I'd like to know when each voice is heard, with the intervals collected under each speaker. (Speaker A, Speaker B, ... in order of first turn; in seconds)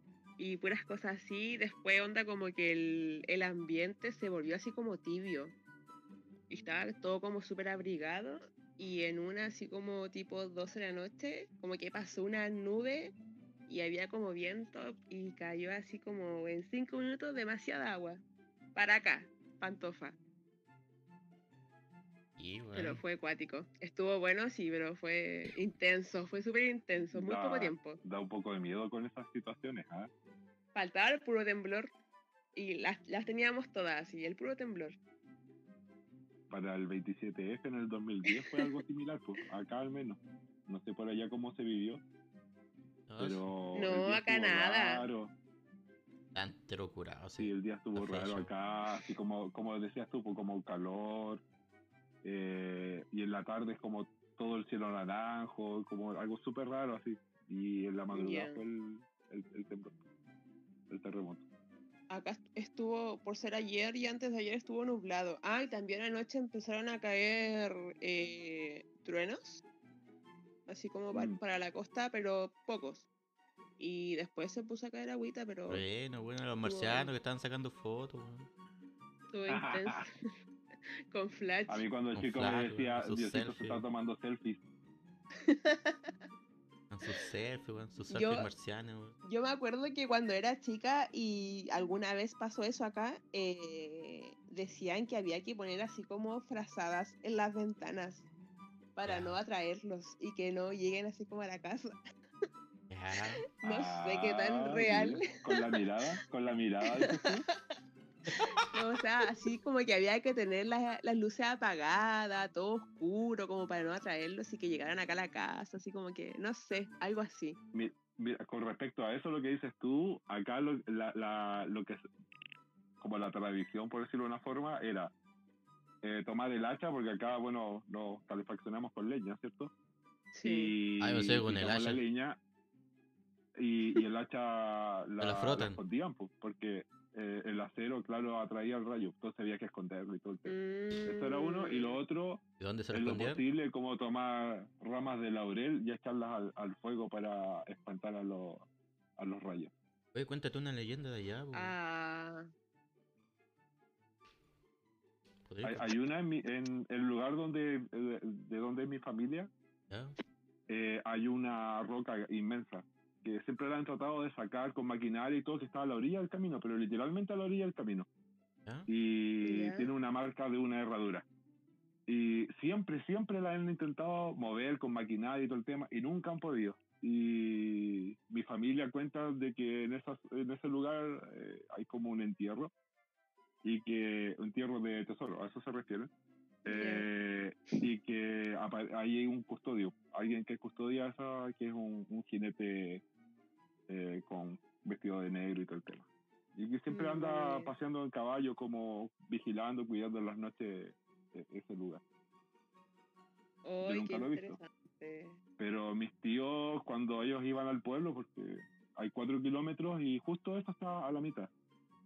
Speaker A: 0.4-5.5, 6.5-13.1, 13.7-18.2, 18.7-20.2, 22.7-28.0, 30.7-31.9, 32.5-35.0, 38.4-38.7, 43.7-45.1, 58.1-58.6, 62.1-69.6, 70.7-73.1, 73.8-75.8, 76.6-77.1, 79.3-80.1, 81.1-81.8, 85.4-86.1, 88.1-88.5, 89.2-98.2, 99.0-102.0, 103.6-105.8, 106.9-107.3, 108.4-117.6, 130.3-130.7, 140.4-142.0, 151.5-152.5, 169.4-169.9, 186.6-187.1, 196.9-197.7, 203.6-205.4
Speaker B: 22.4-23.0, 43.1-43.5, 46.3-48.5, 75.7-78.5, 82.1-83.8, 86.9-89.2, 99.0-99.4, 102.9-103.4, 131.0-132.0, 135.2-135.8, 142.6-143.4, 150.1-151.7, 155.4-156.0, 159.9-160.1
Speaker C: 27.1-30.1, 36.5-42.0, 43.2-45.3, 47.4-51.4, 52.2-60.0, 60.9-61.4, 71.1-71.4, 79.5-80.0, 81.7-84.6, 103.6-107.5, 117.7-122.0, 123.0-125.1, 126.0-129.7, 130.4-132.4, 133.6-149.7, 155.6-159.5, 160.7-168.1, 168.9-171.2, 172.1-182.7, 183.6-186.1, 186.6-193.0, 193.9-202.0, 203.8-204.6, 205.6-211.5